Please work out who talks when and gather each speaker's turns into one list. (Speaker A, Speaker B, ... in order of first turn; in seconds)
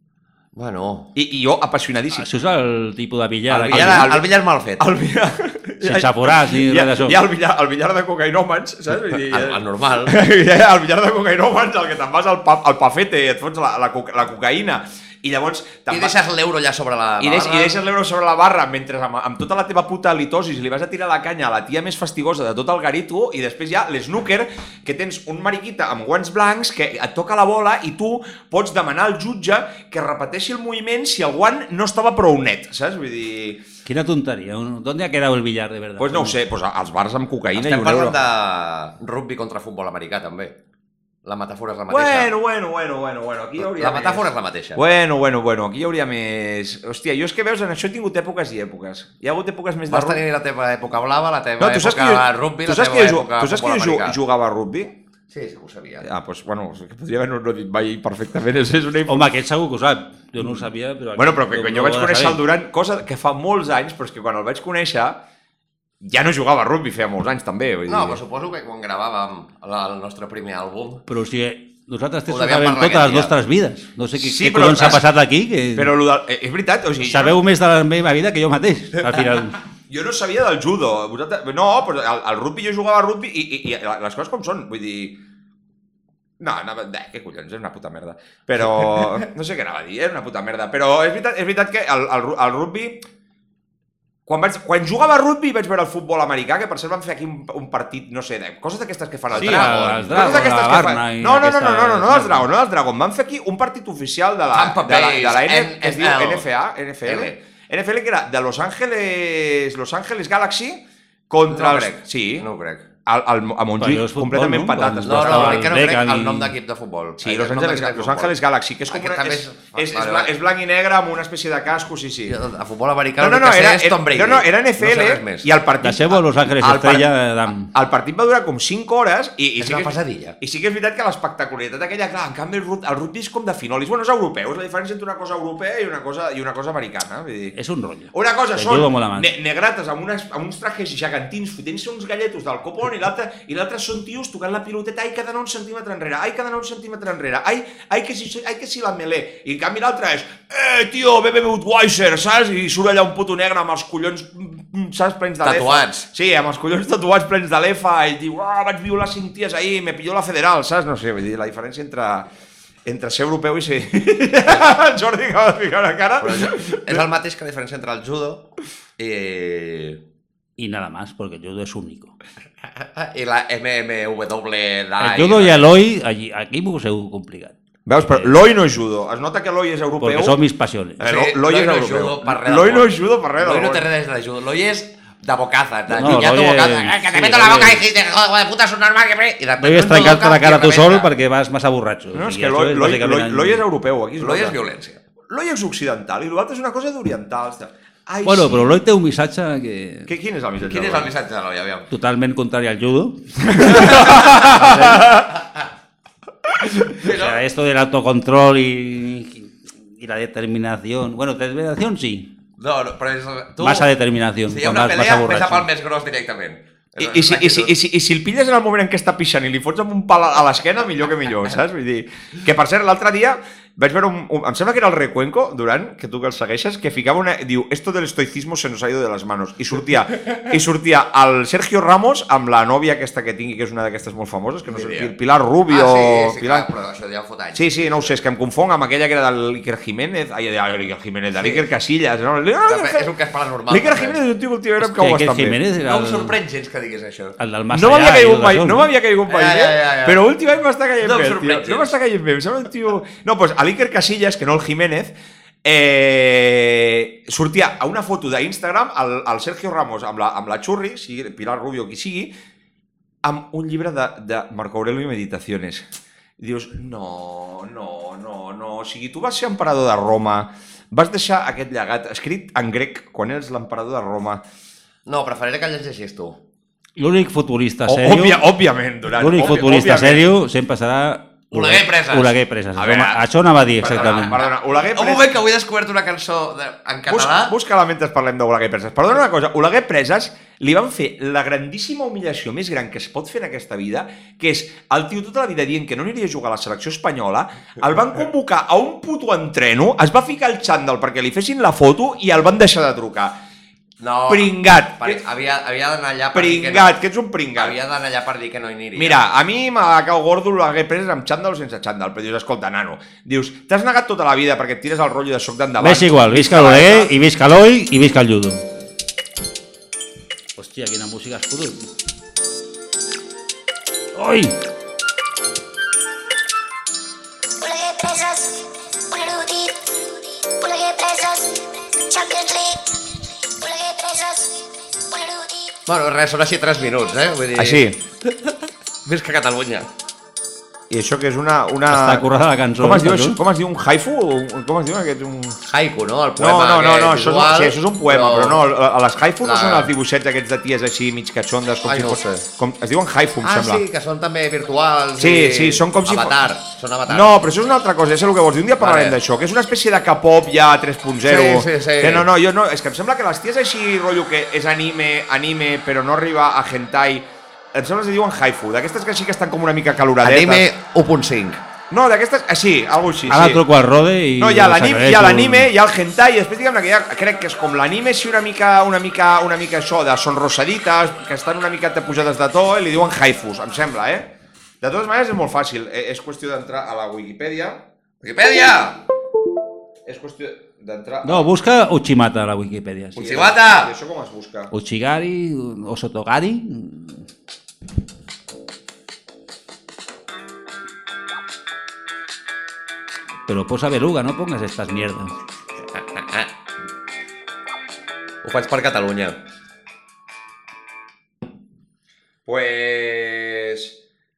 Speaker A: 0.5-1.1, 3.5-4.8, 9.2-10.1, 15.9-17.8, 37.5-40.5, 41.2-42.3, 43.6-44.8, 49.9-54.2, 55.3-56.1, 67.9-71.0, 72.3-73.3, 99.3-100.5, 104.5-106.5, 107.0-107.4, 111.5-112.8, 115.0-118.3, 118.9-120.3, 122.2-125.5, 129.6-130.4, 155.4-156.1, 166.2-168.5, 169.0-170.0, 172.8-175.7, 181.0-191.1, 194.2-195.0, 200.6-201.9, 203.6-205.4, 206.9-207.4, 212.6-213.9, 214.5-217.7, 234.7-235.1, 235.7-238.2, 241.4-241.6, 242.7-244.2, 245.8-247.4, 249.3-250.2, 251.0-251.9, 275.1-276.4, 281.5-282.8, 283.8-287.5, 304.0-306.9, 307.6-309.2, 335.9-338.5, 339.1-339.9, 345.7-348.6, 349.4-349.9, 351.9-352.4, 353.4-357.4, 358.8-359.2, 361.2-362.3, 370.2-371.6, 388.2-389.0, 393.1-393.9, 405.9-406.5, 408.4-409.4
Speaker B: 1.1-2.3, 3.6-16.2, 17.2-33.6, 36.0-38.2, 41.9-50.2, 51.6-54.9, 56.0-59.3, 61.1-65.2, 66.0-68.2, 74.2-75.1, 75.7-77.4, 79.9-85.2, 86.4-93.0, 94.2-112.5, 113.0-115.7, 117.2-122.4, 123.2-127.1, 127.7-137.6, 138.1-162.3, 162.9-167.0, 177.9-180.4, 181.0-183.9, 192.1-194.6, 195.3-198.8, 200.1-201.1, 203.5-205.2, 217.0-236.7, 237.5-243.1, 243.7-245.6, 247.7-255.1, 255.6-262.3, 263.2-265.8, 266.4-274.4, 277.9-280.3, 282.8-283.2, 283.8-285.3, 287.1-303.4, 304.3-305.2, 306.3-307.8, 308.9-317.1, 337.6-338.0, 340.9-342.2, 342.8-345.6, 346.4-353.8, 355.2-356.4, 357.1-370.7, 371.9-373.6, 374.4-387.8, 390.1-391.5, 393.1-394.7, 412.4-414.0
Speaker C: 2.2-4.1, 5.8-7.2, 33.8-36.4, 59.1-62.4, 71.1-75.9, 77.0-79.6, 99.3-102.5, 113.8-116.5, 125.8-127.7, 137.6-139.3, 170.6-172.1, 175.0-177.5, 180.0-181.0, 185.9-187.8, 189.6-193.6, 198.2-200.1, 201.9-205.0, 207.0-212.3, 213.6-215.7, 244.8-246.4, 247.4-248.9, 277.0-278.4, 279.1-284.4, 315.8-318.6, 320.6-321.9, 324.1-324.6, 341.9-343.4, 373.3-375.7, 391.2-393.4, 394.7-397.2, 403.5-405.3
Speaker D: 327.6-335.8